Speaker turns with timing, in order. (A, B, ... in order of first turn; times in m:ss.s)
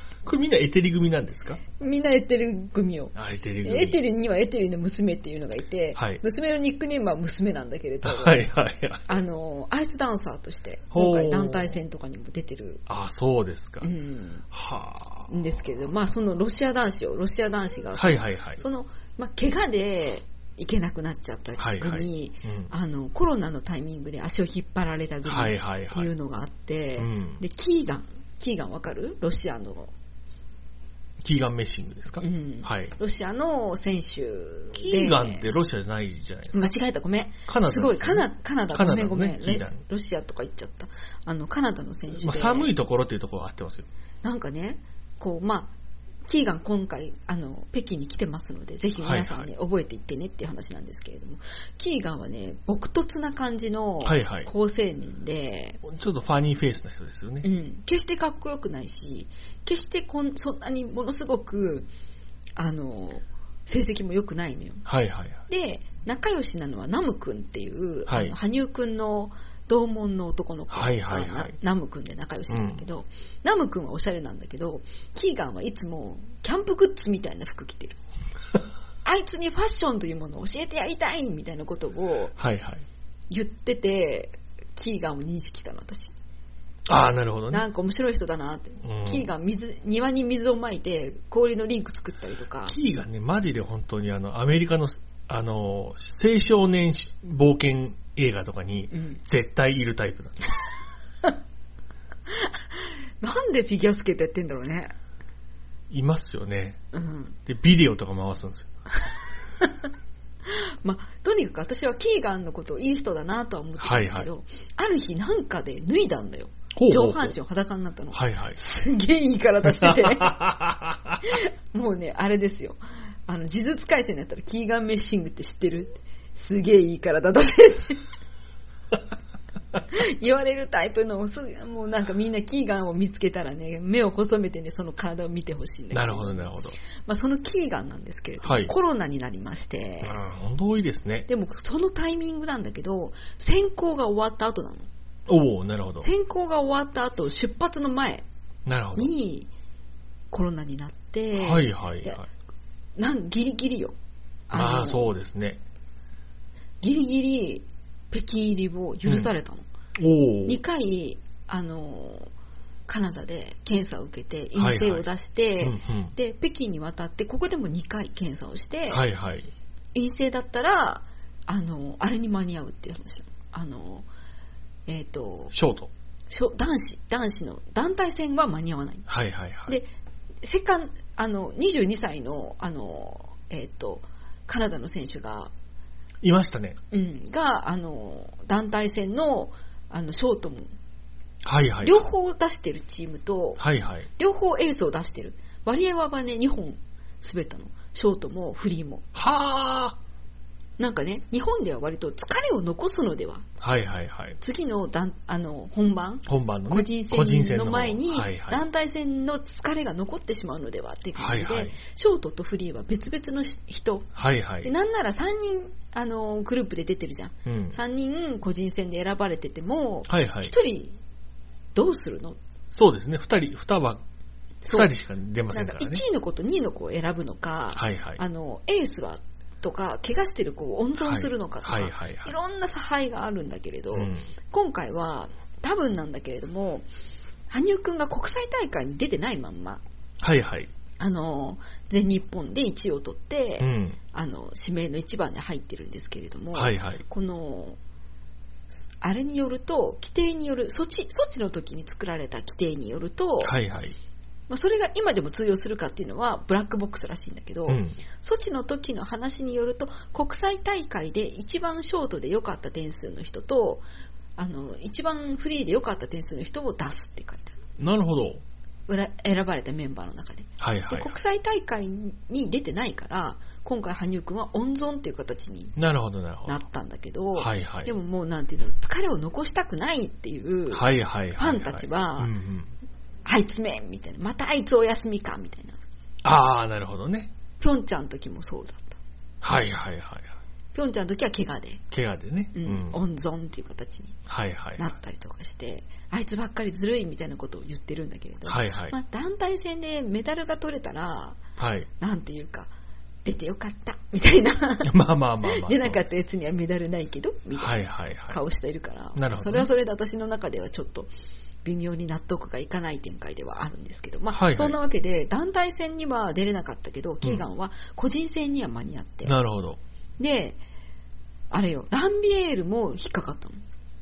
0:00.2-0:01.6 A
0:01.8-0:08.5 B
0:03.1-0:04.0 A
0:05.9-0:06.2 A
0:08.0-0:09.2 A
0:09.1-0:12.8 B
0:10.9-0:11.8 A
0:12.9-0:13.9 A
0:13.8-0:14.4 B
0:14.5-0:15.3 A
0:15.3-0:29.9 B
0:17.9-0:18.6 A
0:21.6-0:22.7 A
0:25.2-0:26.1 A
0:27.0-0:27.4 A
0:31.2-0:32.9 A
0:32.2-0:35.5 B
0:34.7-0:36.7 A
0:36.5-0:42.7 B
0:37.5-0:39.8 A
0:42.1-0:43.9 A
0:44.2-0:45.7 B
0:46.2-0:55.8 B
0:49.0-0:49.5 A
0:54.0-0:54.5 A
0:55.8-0:57.5 A
0:57.4-1:01.9 B
1:02.6-1:04.8 B
1:04.8-1:05.4 A
1:05.5-1:18.0 B
1:08.1-1:08.3 A
1:10.7-1:11.5 A
1:12.5-1:12.8 A
1:19.0-1:22.4 B
1:22.4-1:22.9 A
1:23.3-1:26.1 B
1:26.9-1:27.6 A
1:27.5-1:32.8 B
1:28.8-1:29.3 A
1:32.7-1:40.5 A
1:38.9-1:39.2 B
1:42.3-1:44.9 B
1:45.9-1:46.8 A
1:46.9-1:47.4 B
1:47.4-1:48.7 A
1:50.4-2:00.4 B
1:53.8-1:54.3 A
1:56.7-1:57.4 A
1:58.1-1:58.6 A
1:59.7-2:01.3 A
2:01.2-2:08.0 B
2:09.9-2:16.5 B
2:15.9-2:16.8 A
2:17.1-2:20.2 B
2:18.4-2:18.7 A
2:20.0-2:21.3 A
2:21.3-2:24.9 B
2:25.3-2:26.1 A
2:26.0-2:28.2 B
2:28.6-2:29.1 A
2:28.9-2:29.5 B
2:30.3-2:32.2 B
2:31.4-2:32.3 A
2:33.0-2:33.9 B
2:34.5-2:35.1 B
2:34.5-2:35.6 A
2:36.8-2:39.6 B
2:40.0-2:40.6 A
2:40.4-2:42.3 B
2:42.9-2:49.0 B
2:44.6-2:45.0 A
2:45.6-2:46.1 A
2:48.9-2:49.5 A
2:49.9-2:54.1 B
2:54.9-2:55.6 B
2:55.5-2:55.9 A
2:56.3-2:59.1 B
2:59.1-2:59.8 A
3:00.4-3:05.5 B
3:06.2-3:06.8 A
3:06.9-3:10.7 B
3:11.4-3:12.0 A
3:11.8-3:13.6 B
3:13.6-3:14.1 A
3:14.2-3:19.0 B
3:19.1-3:20.0 A
3:20.8-3:23.5 B
3:23.6-3:24.4 A
3:24.4-3:34.1 B
3:26.2-3:28.6 A
3:31.2-3:31.8 A
3:34.1-3:34.7 A
3:34.6-3:41.0 B
3:37.4-3:37.8 A
3:40.1-3:40.5 A
3:41.7-3:42.4 B
3:42.7-3:44.0 A
3:44.6-3:44.9 B
3:44.7-3:46.0 A
3:45.5-3:56.9 B
3:47.7-3:48.2 A
3:51.0-3:52.4 A
3:53.9-3:54.3 A
3:57.5-3:59.8 B
4:00.2-4:00.7 A
4:01.0-4:07.8 B
4:03.6-4:04.0 A
4:06.5-4:07.0 A
4:09.0-4:13.6 B
4:13.4-4:14.0 A
4:14.5-4:23.8 B
4:17.7-4:18.0 A
4:24.4-4:27.6 B
4:27.8-4:28.4 A
4:28.9-4:35.7 B
4:30.6-4:31.1 A
4:35.8-4:36.6 A
4:36.4-4:42.3 B
4:37.4-4:37.9 A
4:40.7-4:42.7 A
4:43.2-4:45.8 B
4:46.2-4:47.3 A
4:47.6-4:49.0 B
4:49.4-4:50.4 A
4:50.7-4:51.8 B
4:51.9-4:53.0 A
4:52.5-4:54.2 B
4:54.3-4:54.9 A
4:54.8-5:01.4 B
4:58.4-4:58.9 A
5:01.6-5:01.9 A
5:02.0-5:02.7 B
5:03.2-5:04.9 B
5:04.8-5:06.0 A
5:05.4-5:11.1 B
5:07.6-5:08.4 A
5:09.2-5:09.7 A
5:11.6-5:19.3 B
5:14.3-5:14.8 A
5:19.2-5:19.8 A
5:20.2-5:20.6 B
5:21.5-5:23.6 B